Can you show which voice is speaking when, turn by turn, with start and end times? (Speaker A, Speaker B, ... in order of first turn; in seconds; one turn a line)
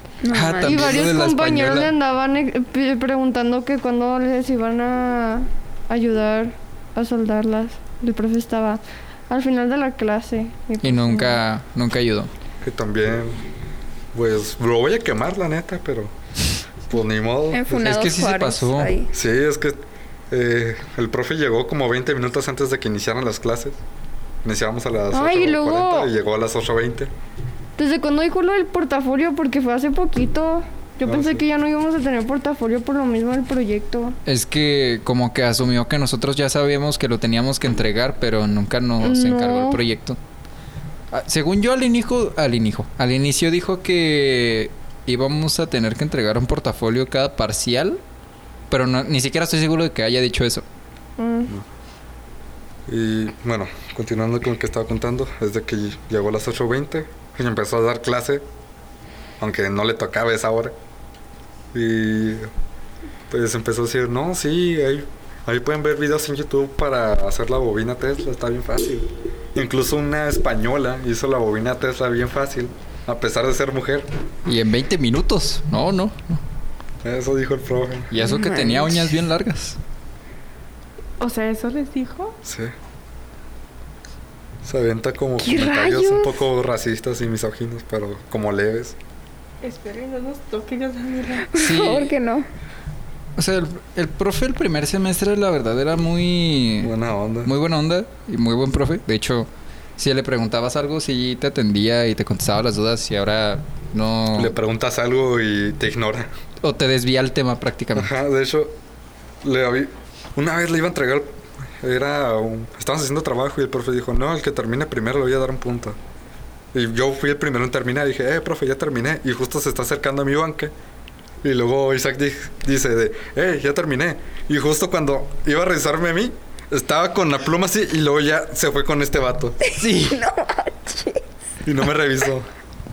Speaker A: 0.2-1.0
Speaker B: 0.3-1.9
Speaker C: 0.6-11.4
Speaker B: 10.8-12.3
Speaker D: 12.6-13.4
Speaker D: 14.1-16.1
Speaker D: 16.9-17.9
Speaker A: 17.5-19.1
Speaker B: 17.7-18.9
Speaker D: 19.1-23.8
Speaker D: 24.4-27.1
Speaker C: 25.1-26.1
Speaker C: 27.8-34.2
Speaker D: 31.0-31.4
Speaker B: 34.3-40.2
Speaker C: 39.0-39.8
Speaker B: 41.1-48.0
Speaker B: 48.7-50.6
Speaker C: 51.2-51.5
Speaker D: 52.9-58.5
Speaker D: 59.4-60.8
Speaker D: 61.7-62.5
Speaker D: 63.3-74.1
Speaker B: 74.5-76.4
Speaker D: 77.0-78.2
Speaker B: 78.1-79.8
Speaker A: 78.2-79.1
Speaker E: 81.2-82.4
Speaker D: 82.4-82.7
Speaker D: 84.6-89.0
Speaker A: 85.4-86.5
Speaker E: 89.6-91.5
Speaker A: 91.5-92.5
Speaker B: 91.5-92.2
Speaker B: 93.4-96.9
Speaker D: 96.8-97.5
Speaker B: 97.5-104.5
Speaker D: 104.3-106.3
Speaker B: 106.6-108.1
Speaker D: 108.0-108.7
Speaker D: 109.4-116.0
Speaker D: 116.7-120.7
Speaker D: 121.4-129.6
Speaker A: 129.7-131.2
Speaker B: 129.8-130.2
Speaker D: 131.6-132.5